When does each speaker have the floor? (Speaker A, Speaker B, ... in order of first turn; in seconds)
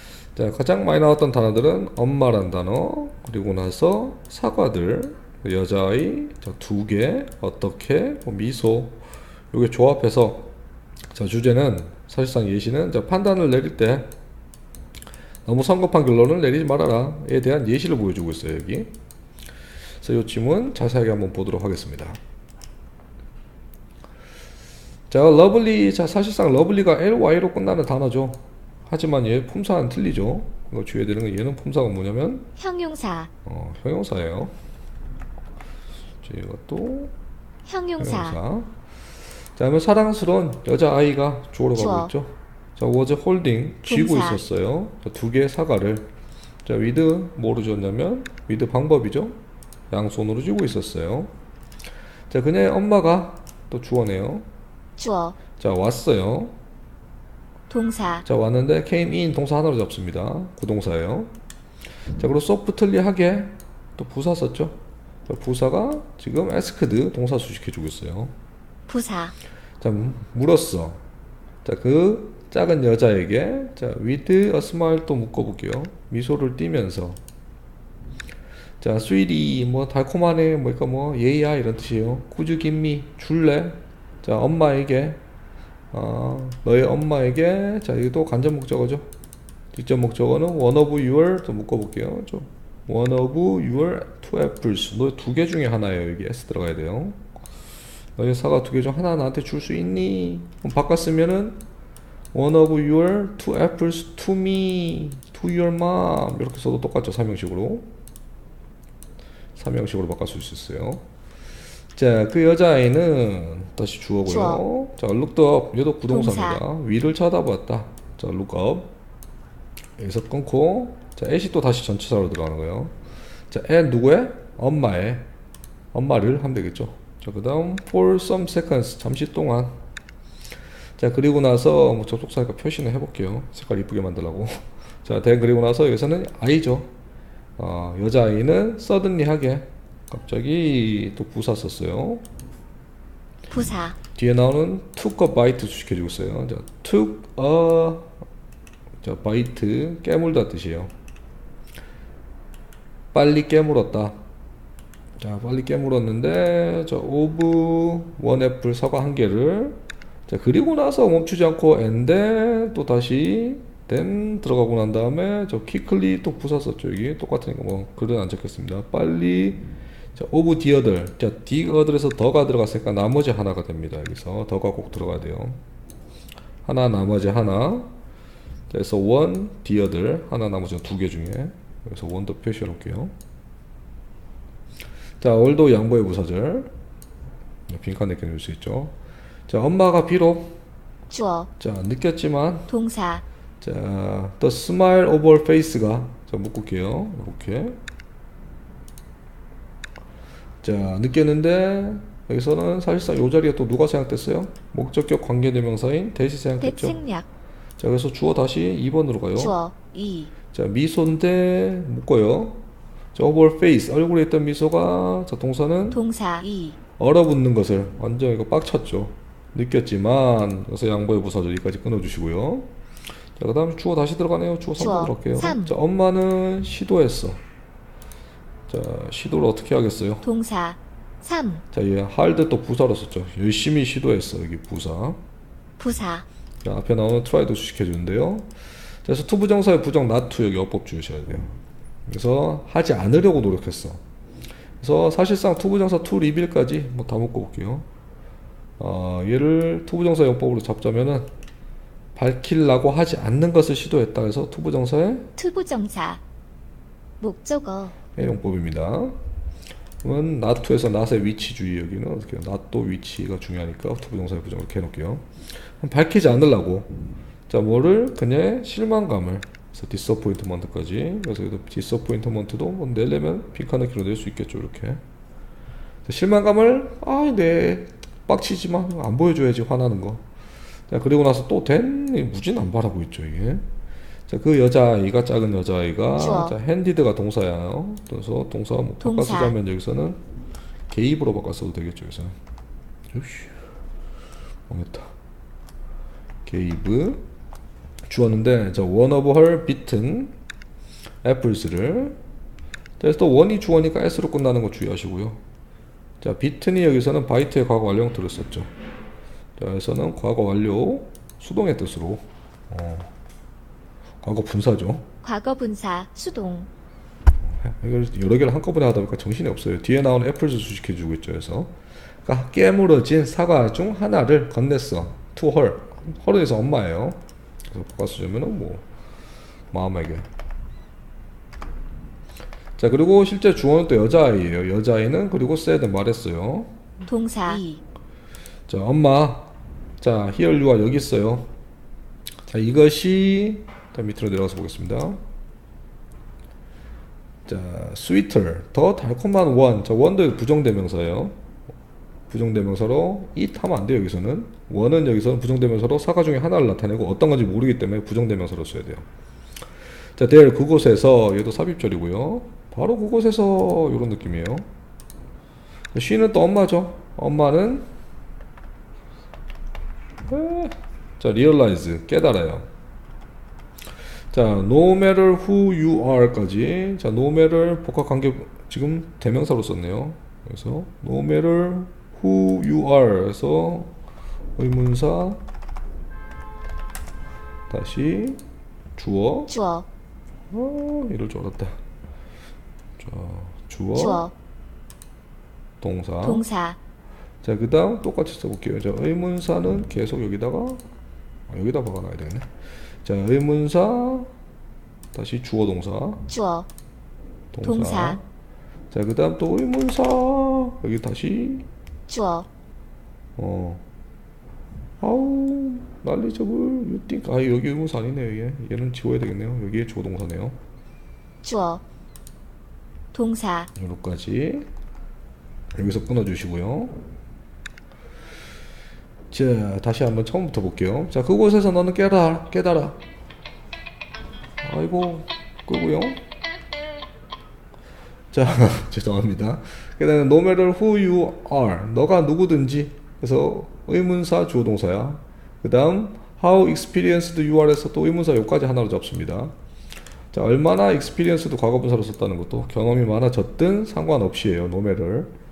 Speaker A: 0.3-9.0, 9.5-10.5, 11.1-14.1, 15.4-18.9, 20.0-22.2, 25.1-32.5, 33.4-34.5, 36.2-37.1, 38.0-38.7, 39.5-46.1, 46.6-49.4, 49.9-51.3, 52.3-54.5, 55.5-56.5, 58.2-61.3, 62.1-68.3, 69.8-71.0, 71.6-77.2, 78.8-85.2, 85.9-89.1, 89.7-97.2, 98.2-101.6, 102.3-107.9, 109.5-111.0, 111.9-118.9, 120.0-122.9, 123.5-125.2, 125.9-129.7, 131.0-136.9, 137.6-142.2, 144.1-148.1, 149.0-150.9, 153.1-154.2, 155.2-169.6, 170.1-175.6, 176.6-177.9, 178.7-183.1, 185.2-186.7, 187.7-188.9, 189.5-190.6, 191.6-192.7, 193.6-197.8, 200.6-207.0, 207.8-209.6, 210.5-212.6, 213.1-216.0, 217.0-222.7, 223.4-227.4, 228.7-230.3, 231.7-235.2, 236.6-238.5, 239.0-241.5, 242.1-244.0, 244.8-247.8, 248.8-251.2, 252.2-255.3, 258.1-259.1, 260.0-266.9, 267.5-275.0, 276.1-280.2, 280.9-283.6, 284.3-290.2, 290.9-292.4, 293.1-293.5, 294.7-295.1, 296.4-297.2, 298.1-300.3, 301.2-302.1, 303.0-305.4, 306.2-308.7, 309.6-313.1, 314.2-315.1, 317.4-321.7, 322.2-328.8, 329.7-330.3, 332.8-336.7, 338.7-341.5, 342.5-345.2, 347.4-351.3, 352.3-359.0, 360.1-364.7, 365.9-367.9, 370.3-372.7, 374.3-383.9, 384.6-385.4, 387.7-388.4, 389.0-389.5, 390.5-391.8, 393.0-394.3, 395.8-396.4, 397.4-400.8, 401.5-402.5, 403.0-404.3, 405.1-406.3, 407.5-408.2, 408.9-411.6, 413.4-413.8, 415.0-420.6, 423.7-424.7, 425.7-426.9, 429.3-433.0, 434.6-436.2, 438.3-449.5, 450.3-455.3
Speaker B: 32.6-33.3, 37.6-38.4, 41.8-42.1, 43.9-44.4, 55.0-55.4, 57.7-58.2, 68.9-69.3, 114.2-114.6, 116.1-116.6, 143.5-144.0, 191.1-191.5, 192.7-193.2, 206.6-207.3, 209.3-210.3, 215.9-216.8, 224.8-225.8, 230.2-231.6, 235.8-236.2, 255.3-256.2, 257.2-257.9, 286.2-286.6, 289.0-289.5, 315.2-316.7, 337.1-337.8, 389.5-389.9, 393.9-394.3, 396.2-396.8, 406.3-406.7, 407.6-408.2, 412.1-412.5, 421.4-421.8, 423.1-423.7